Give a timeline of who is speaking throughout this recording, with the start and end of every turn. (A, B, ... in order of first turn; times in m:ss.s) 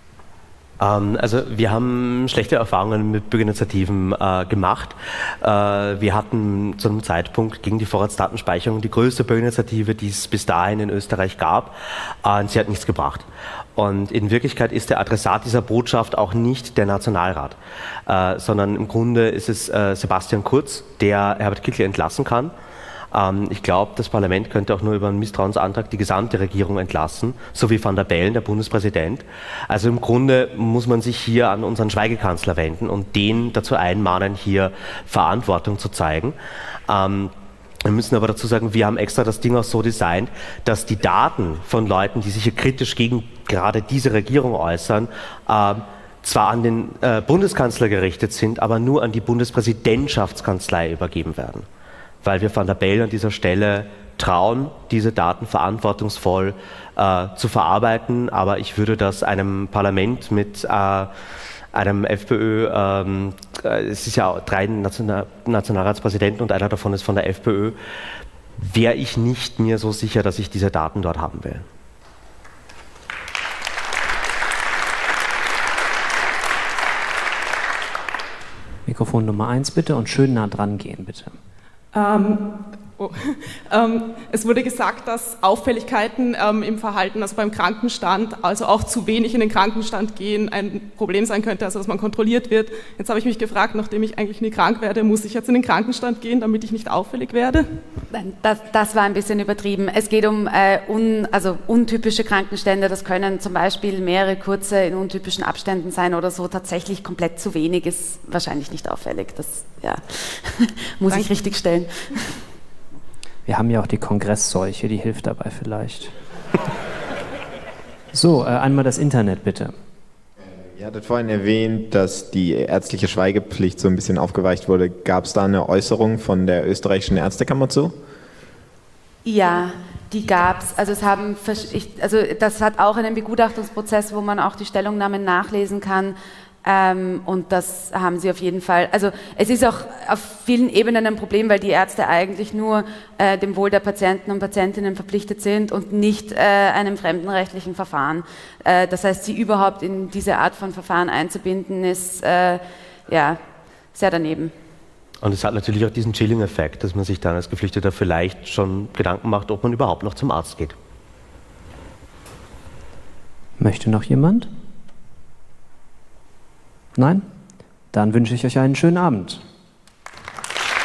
0:00.8-0:22.5 A
0:23.1-0:36.4 A
0:36.9-0:37.3 A
0:37.8-0:51.6 A
0:52.2-1:01.1 A
1:01.7-1:07.8 A
1:08.6-1:11.6 A
1:18.8-1:21.4 B
1:21.9-1:37.8 C
1:38.1-1:52.3 D
1:53.4-1:56.1 B
1:58.1-1:59.7 B
2:00.6-2:08.0 E
2:09.2-2:33.4 D
2:33.9-2:34.5 D
2:35.2-2:40.8 A
2:43.6-2:44.5 B
2:47.0-2:47.2 B
2:47.9-2:49.4 B